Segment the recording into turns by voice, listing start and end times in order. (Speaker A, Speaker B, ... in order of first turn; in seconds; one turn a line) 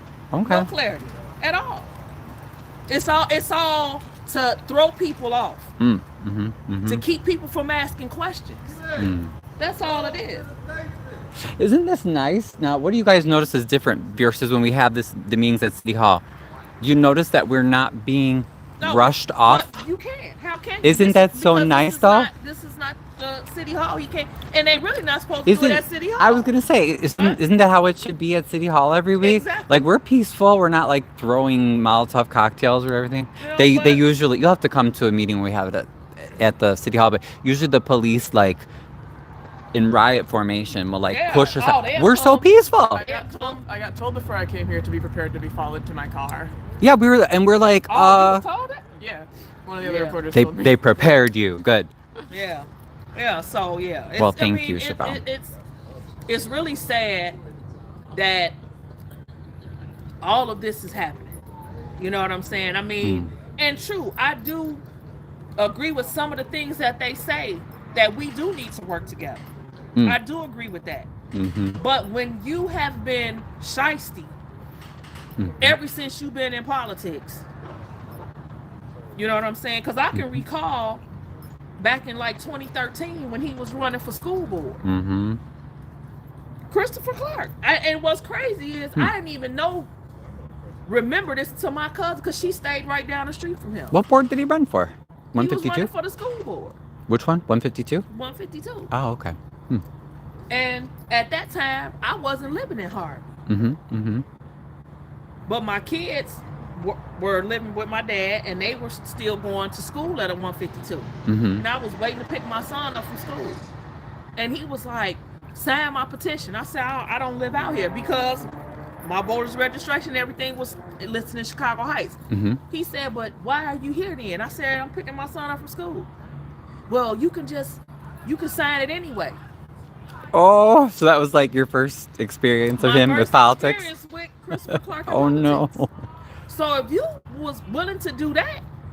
Speaker A: 0.3-0.7
Speaker B: 0.4-1.9
Speaker B: 2.9-5.7
Speaker A: 5.8-7.0
Speaker B: 6.8-9.0
Speaker A: 8.9-9.3
Speaker B: 9.6-10.5
Speaker A: 11.6-16.2
Speaker A: 16.8-19.8
Speaker B: 18.8-26.5
Speaker A: 20.8-22.3
Speaker A: 25.4-38.6
Speaker B: 27.1-27.4
Speaker B: 29.2-29.9
Speaker B: 33.4-34.1
Speaker A: 39.7-43.0
Speaker B: 41.1-43.6
Speaker C: 42.9-46.5
Speaker A: 46.8-48.4
Speaker B: 47.9-48.9
Speaker C: 49.0-51.3
Speaker B: 49.8-50.2
Speaker A: 50.3-51.9
Speaker B: 52.3-55.5
Speaker A: 54.2-55.2
Speaker B: 56.3-57.4
Speaker B: 58.1-58.6
Speaker B: 60.2-61.4
Speaker B: 62.0-64.8
Speaker A: 63.0-63.3
Speaker B: 65.6-69.4
Speaker B: 70.0-71.1
Speaker A: 71.3-71.8
Speaker B: 71.8-74.4
Speaker A: 75.4-75.8
Speaker B: 75.6-77.5
Speaker B: 79.2-81.0
Speaker A: 80.1-80.4
Speaker B: 81.8-84.8
Speaker A: 84.8-85.4
Speaker B: 86.7-89.9
Speaker B: 90.9-94.0
Speaker A: 93.9-95.9
Speaker B: 95.3-96.8
Speaker A: 97.1-98.0
Speaker B: 98.1-98.9
Speaker A: 98.9-99.8
Speaker B: 100.5-103.3
Speaker A: 103.5-104.2
Speaker B: 105.5-113.7
Speaker A: 111.3-111.6
Speaker B: 114.3-118.5
Speaker B: 119.0-122.2
Speaker A: 122.3-122.6
Speaker B: 122.7-126.1
Speaker B: 126.9-129.4
Speaker A: 130.3-133.9
Speaker B: 132.7-135.8
Speaker A: 135.1-135.9
Speaker B: 136.5-138.6